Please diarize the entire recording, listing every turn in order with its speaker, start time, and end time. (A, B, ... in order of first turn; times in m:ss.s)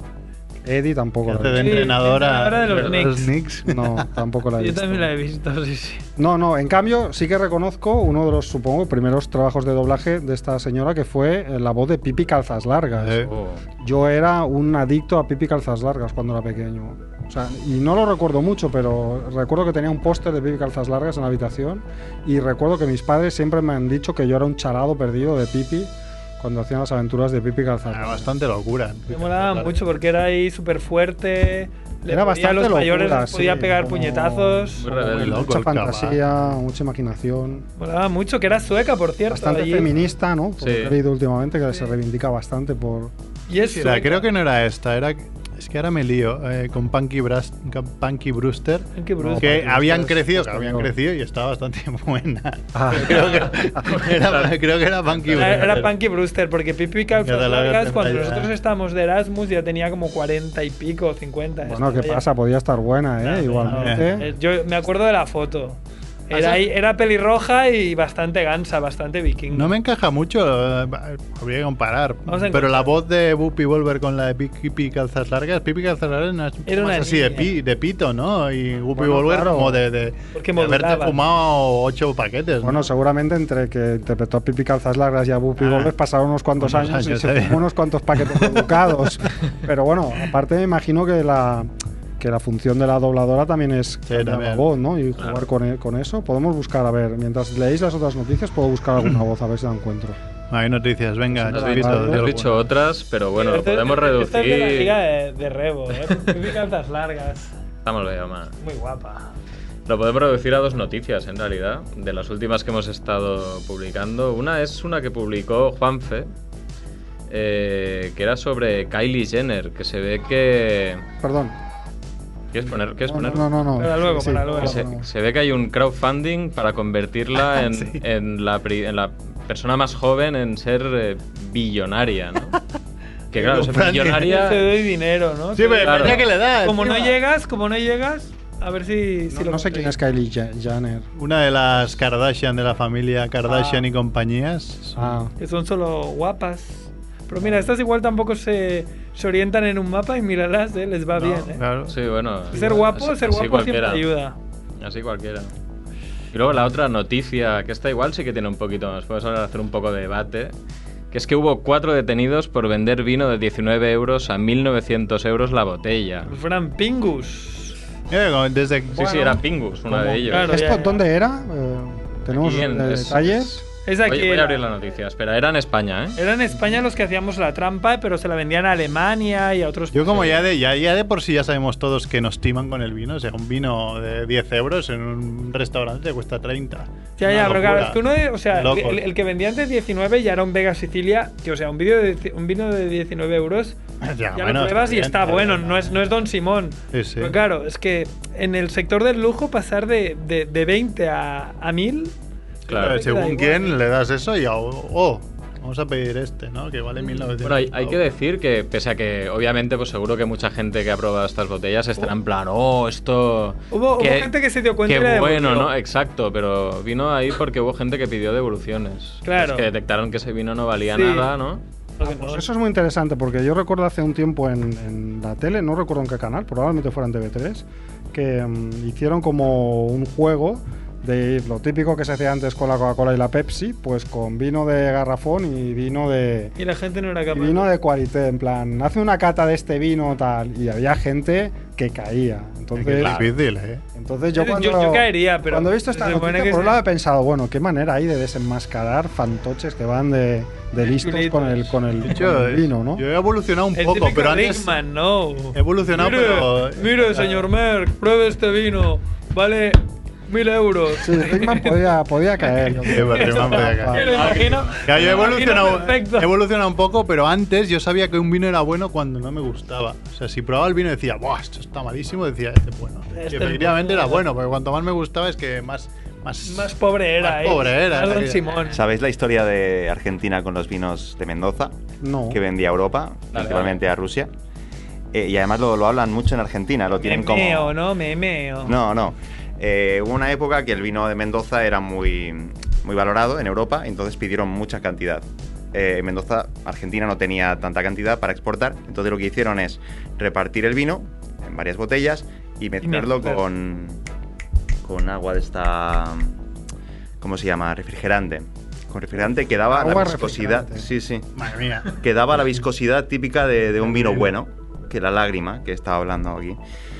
0:00.6-0:01.9 A
0:01.2-0:04.1 B
0:01.6-0:03.3 C
0:02.7-0:03.0 D
0:03.6-0:05.1 A
0:04.6-0:06.0 C
0:06.2-0:13.3 A
0:13.0-0:13.3 B
0:13.3-0:13.6 D
0:13.8-0:28.3 A
0:27.9-0:29.8 B
0:29.1-0:34.8 C
0:32.1-0:37.6 A
0:34.8-0:35.4 D
0:35.0-0:36.2 B
0:37.8-0:39.9 C
0:39.3-0:43.1 A
0:40.6-0:41.0 D
0:43.5-0:44.3 C
0:43.6-0:56.0 B
0:49.0-0:49.6 C
0:49.2-0:50.9 A
0:52.7-0:53.8 A
0:53.8-0:54.5 D
0:55.3-1:02.2 C
0:57.2-0:58.5 B
1:01.6-1:04.2 A
1:03.2-1:05.8 C
1:03.6-1:04.2 B
1:06.3-1:09.7 C
1:06.3-1:06.6 B
1:09.5-1:22.8 B
1:12.3-1:12.9 C
1:16.6-1:17.5 C
1:19.0-1:19.8 A
1:20.3-1:21.2 C
1:22.6-1:40.2 A
1:25.6-1:25.9 B
1:26.6-1:27.6 B
1:28.3-1:28.8 B
1:34.1-1:34.6 B
1:35.2-1:35.5 D
1:40.5-1:42.7 B
1:41.3-1:42.3 A
1:41.5-1:45.0 D
1:43.4-1:47.5 C
1:47.8-1:48.5 D
1:48.6-1:49.3 C
1:49.9-1:56.3 D
1:57.3-2:01.0 D
2:01.2-2:01.5 A
2:02.5-2:03.5 D
2:03.0-2:05.1 A
2:03.8-2:04.9 C
2:04.5-2:12.6 D
2:07.5-2:08.0 B
2:13.3-2:14.7 D
2:13.3-2:14.5 B
2:14.2-2:19.9 C
2:15.5-2:17.2 B
2:15.8-2:16.3 D
2:19.3-2:21.1 A
2:21.2-2:25.2 B
2:23.5-2:23.8 C
2:25.0-2:25.3 A
2:25.4-2:31.6 C
2:31.2-2:32.0 B
2:31.9-2:34.1 D
2:32.5-2:34.4 C
2:34.8-2:35.5 D
2:36.3-2:40.5 D
2:41.1-2:46.3 D
2:46.3-2:47.8 C
2:48.1-2:49.3 B
2:49.0-2:50.6 D
2:49.9-2:53.6 A
2:50.3-2:51.0 C
2:52.3-2:56.2 D
2:53.9-2:54.6 C
2:56.2-3:00.4 C
2:59.9-3:09.0 B
3:07.2-3:13.8 C
3:14.0-3:16.0 B
3:14.3-3:22.2 C
3:16.9-3:17.3 B
3:22.7-3:23.0 D
3:22.7-3:28.0 B
3:22.7-3:23.8 C
3:27.1-3:41.6 D
3:33.7-3:35.7 C
3:39.2-3:39.7 C
3:40.9-3:41.3 C
3:42.0-3:42.5 C
3:42.0-3:56.5 A
3:56.6-3:57.7 C
3:57.3-4:03.3 A
4:02.8-4:03.8 B
4:04.0-4:13.0 A
4:04.3-4:06.8 C
4:10.8-4:11.8 C
4:12.0-4:14.8 B
4:13.7-4:21.9 C
4:15.5-4:17.4 B
4:21.0-4:24.3 A
4:22.7-4:26.3 C
4:22.9-4:38.5 B
4:24.0-4:25.2 D
4:33.1-4:34.2 C
4:36.4-4:38.8 C
4:38.6-4:41.8 E
4:42.0-4:42.4 A
4:42.3-4:44.3 E
4:43.3-4:43.8 D
4:45.1-4:47.8 E
4:47.0-4:48.8 C
4:48.6-5:04.0 E
5:02.8-5:03.4 C
5:04.8-5:06.3 E
5:07.2-5:11.3 E
5:09.7-5:10.9 A
5:11.4-5:12.0 B
5:11.9-5:16.6 E
5:13.9-5:14.2 B